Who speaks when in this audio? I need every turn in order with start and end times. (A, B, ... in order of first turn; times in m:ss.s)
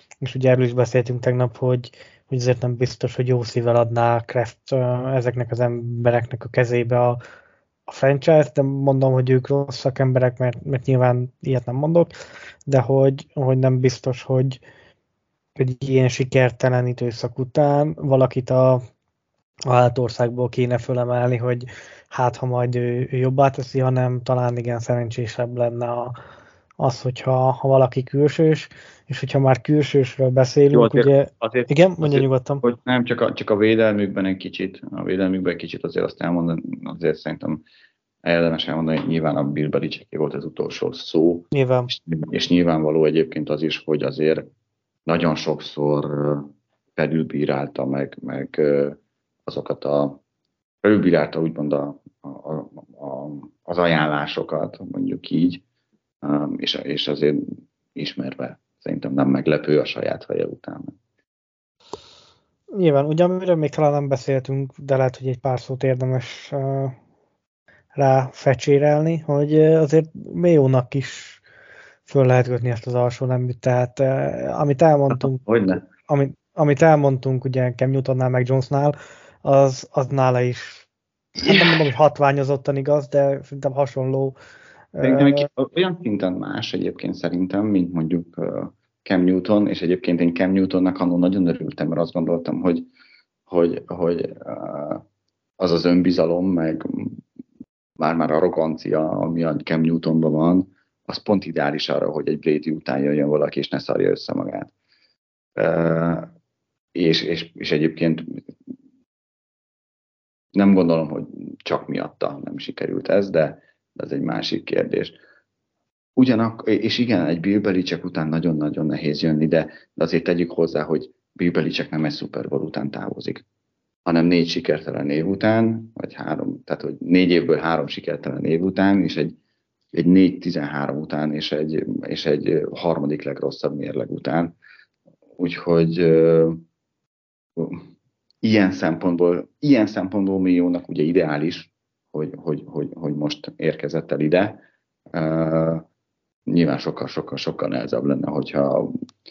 0:00.2-0:07.2 A
0:07.9-0:12.1 A
0:12.7-0:14.6 A
0:15.6-0:18.8 A
0:19.7-0:26.1 A
0:26.8-0:32.6 A
0:30.7-0:37.6 B
0:38.2-0:44.5 B
0:41.5-0:41.9 A
0:45.1-0:50.2 B
0:50.8-0:55.6 B
0:56.2-0:57.4 B
0:58.0-1:00.9 B
1:02.7-1:07.0 A
1:08.0-1:11.4 A
1:12.1-1:15.4 A
1:15.1-1:15.8 B
1:16.0-1:20.9 A
1:21.4-1:24.4 A
1:21.4-1:21.8 B
1:25.0-1:25.5 A
1:25.0-1:32.9 B
1:33.5-1:35.0 B
1:35.6-1:37.2 B
1:38.0-1:44.7 B
1:45.6-1:46.3 B
1:46.9-1:48.4 B
1:50.6-1:55.2 B
1:56.2-2:03.4 B
2:04.1-2:09.4 B
2:09.9-2:14.6 B
2:15.4-2:16.6 B
2:17.6-2:17.9 B
2:18.4-2:25.8 B
2:26.5-2:29.0 B